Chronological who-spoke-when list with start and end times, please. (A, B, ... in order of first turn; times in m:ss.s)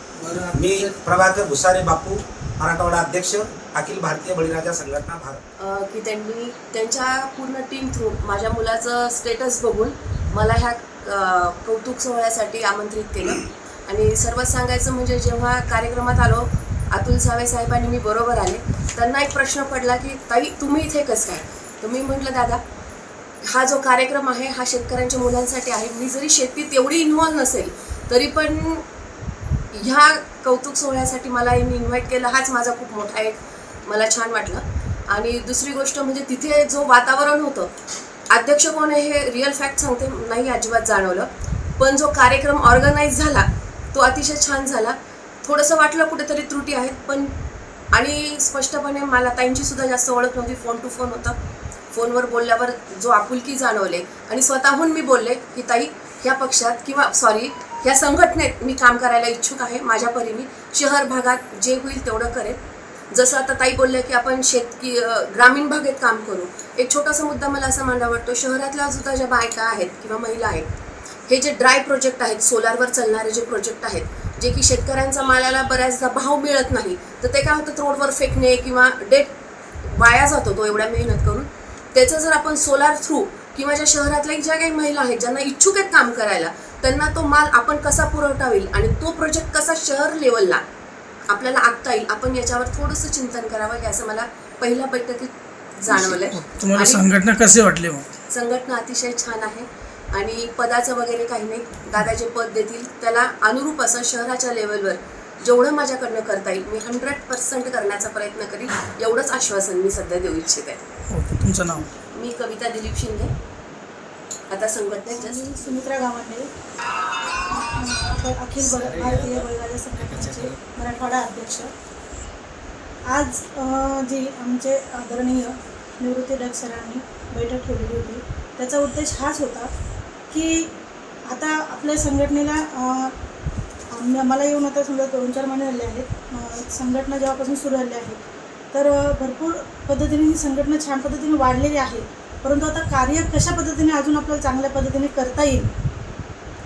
0:00.2-0:00.9 A
0:00.5-0:05.4 B
0:05.6-0:22.6 C
0:23.5-0:28.8 C
0:29.8-0:37.7 C
0:38.3-0:47.3 C
0:48.0-0:51.3 C
0:51.9-1:02.6 C
1:03.1-1:10.7 C
1:11.3-1:19.3 C
1:19.9-1:30.6 C
1:31.3-1:37.1 C
1:35.9-1:38.1 A
1:38.3-1:50.8 C
1:51.1-1:51.9 A
1:52.1-1:53.3 C
1:54.5-1:55.8 C
1:55.1-1:56.5 D
1:57.5-2:01.7 D
1:58.6-1:59.5 B
2:00.0-2:00.5 B
2:03.1-2:09.7 D
2:10.3-2:10.7 D
2:11.3-2:13.1 D
2:13.9-2:18.2 D
2:18.7-2:25.7 D